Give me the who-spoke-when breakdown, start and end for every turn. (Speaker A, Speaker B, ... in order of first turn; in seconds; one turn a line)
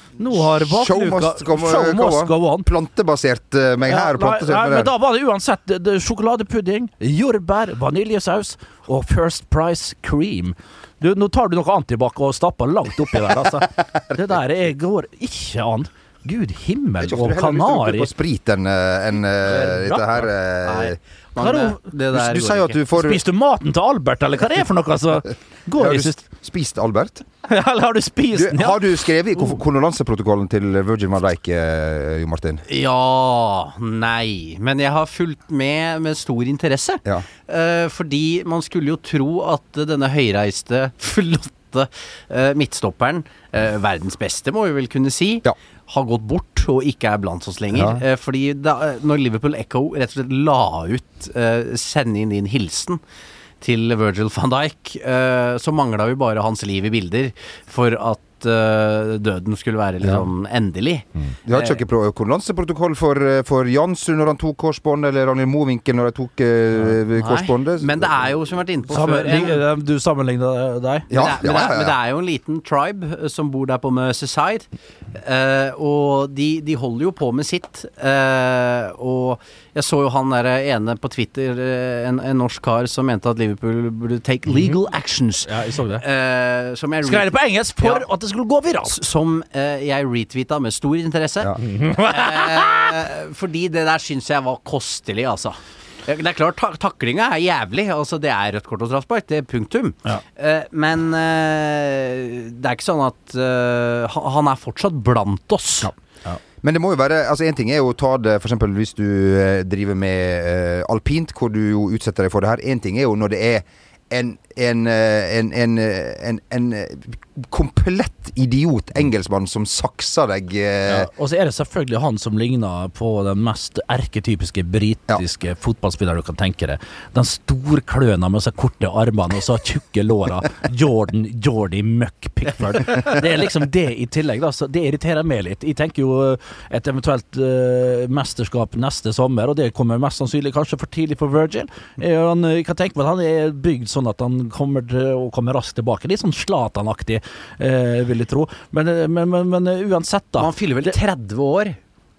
Speaker A: 0.2-2.7
Speaker B: 0.3-4.9
Speaker A: 3.9-18.1
Speaker B: 17.0-21.0
Speaker A: 19.5-20.3
Speaker C: 20.6-22.8
Speaker A: 21.4-21.8
Speaker B: 22.1-23.2
Speaker A: 22.9-26.2
Speaker B: 25.8-27.2
Speaker A: 27.5-28.8
Speaker B: 28.3-32.6
Speaker C: 32.7-53.0
Speaker B: 47.7-48.0
Speaker C: 53.6-61.8
Speaker B: 61.5-68.4
Speaker C: 67.1-69.6
Speaker A: 68.9-71.1
Speaker B: 71.1-72.0
Speaker C: 71.1-88.1
Speaker A: 84.5-84.8
Speaker A: 85.5-86.0
Speaker A: 87.0-89.0
Speaker C: 88.9-91.6
Speaker A: 91.6-92.9
Speaker C: 92.1-105.9
Speaker B: 106.6-121.1
Speaker A: 120.9-151.0
Speaker C: 150.4-151.8